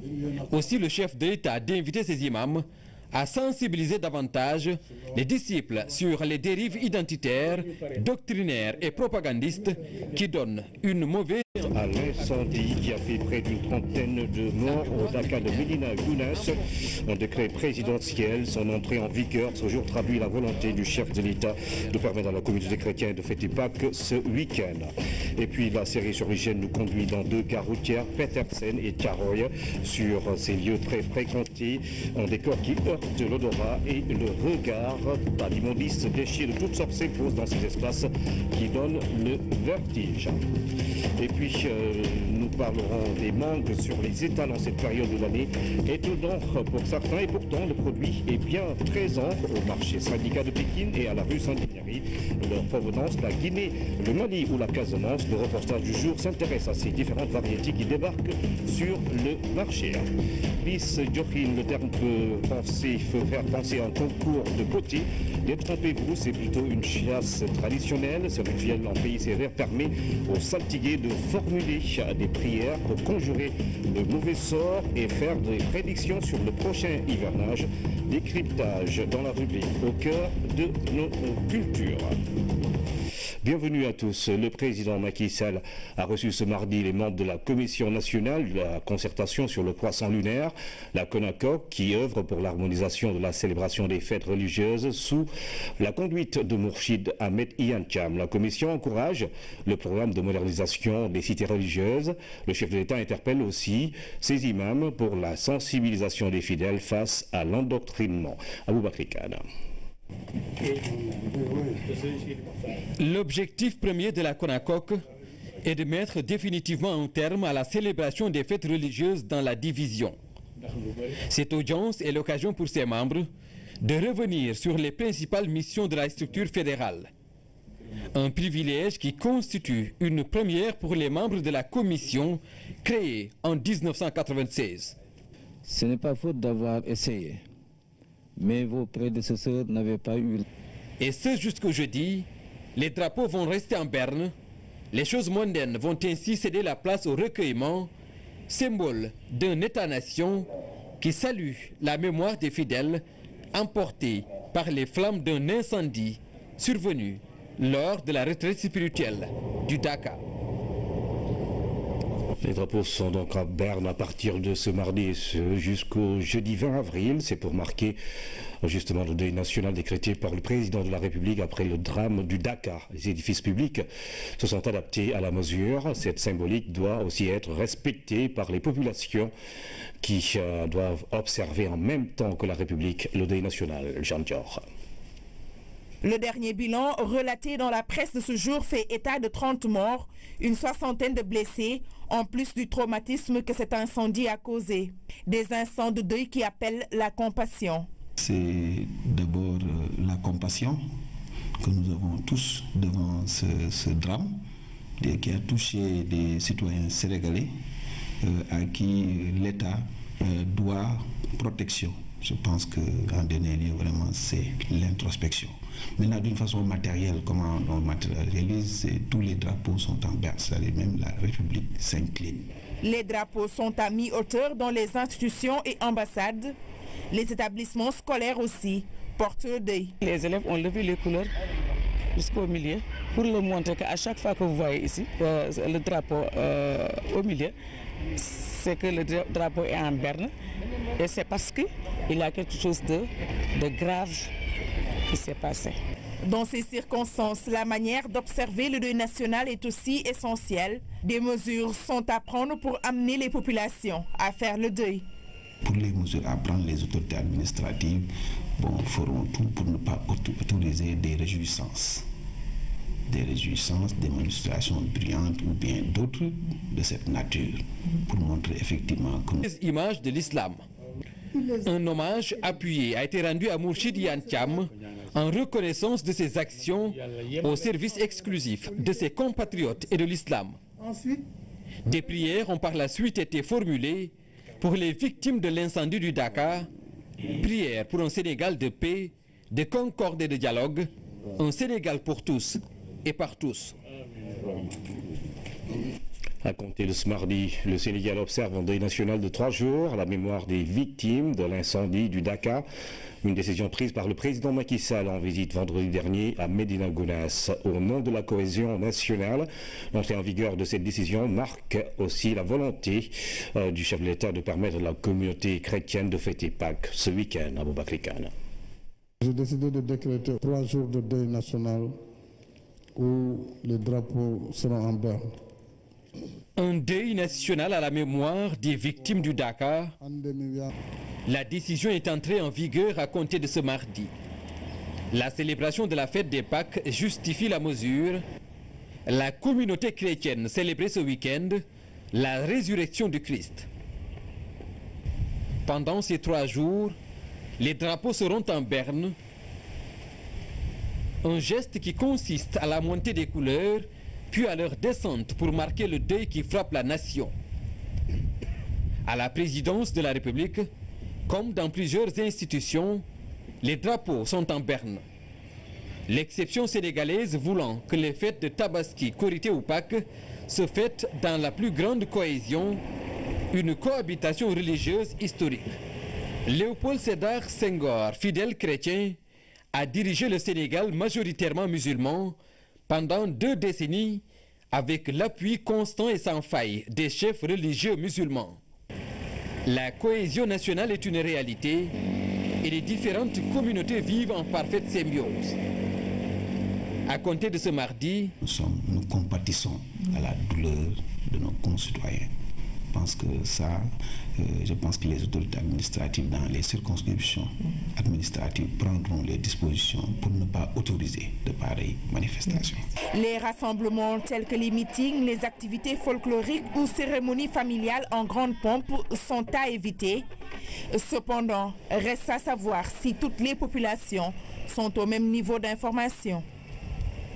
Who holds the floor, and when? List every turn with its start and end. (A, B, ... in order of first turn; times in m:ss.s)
0:00.5-0:11.5 A
0:11.7-0:40.4 B
0:41.2-1:00.1 B
1:00.6-1:22.2 B
1:23.4-1:49.4 B
1:51.3-1:51.8 C
1:53.0-1:55.0 A
1:55.6-2:00.2 A
2:01.2-2:03.3 A
2:03.8-2:07.1 A
2:08.1-2:14.9 A
2:15.6-2:17.4 D
2:18.4-2:20.4 D
2:21.0-2:24.3 A
2:24.9-2:27.9 A
2:28.5-2:30.5 A
2:31.0-2:33.0 A
2:33.5-2:40.2 A
2:42.4-2:48.0 B
2:48.6-2:53.8 B
2:54.4-2:59.3 B
3:00.0-3:04.6 B
3:06.0-3:17.9 E
3:18.2-3:20.8 F
3:21.6-3:24.4 F
3:25.0-3:27.5 F
3:28.2-3:42.5 F
3:42.8-3:46.6 E
3:47.1-3:49.9 E
3:50.0-3:51.3 G
3:52.1-3:57.5 G
3:58.2-4:00.3 G
4:01.0-4:04.3 G
4:05.1-4:05.8 G
4:06.3-4:15.0 E
4:15.6-4:22.0 F
4:23.1-4:29.4 F
4:29.4-4:30.6 A
4:31.6-4:40.6 A
4:41.9-4:46.7 A
4:47.3-4:53.7 A
4:56.4-5:02.6 B
5:03.2-5:18.3 B
5:19.2-5:22.0 C
5:23.0-5:25.3 C
5:26.6-5:29.9 A
5:30.0-5:30.7 C
5:31.2-5:34.1 A
5:35.1-5:38.2 A
5:39.1-5:43.7 A
5:45.6-5:47.0 A
5:47.6-5:49.1 A
5:51.2-5:57.3 A
5:59.0-6:00.7 A
6:01.3-6:03.0 A
6:03.6-6:05.0 A
6:06.1-6:12.8 A
6:13.5-6:15.7 A
6:16.4-6:19.2 A
6:19.7-6:28.6 A
6:29.6-6:31.9 A
6:32.6-6:35.6 A
6:37.1-6:38.3 A
6:38.4-6:42.3 F
6:42.9-6:52.8 F
6:53.1-7:00.2 E
7:00.9-7:06.4 E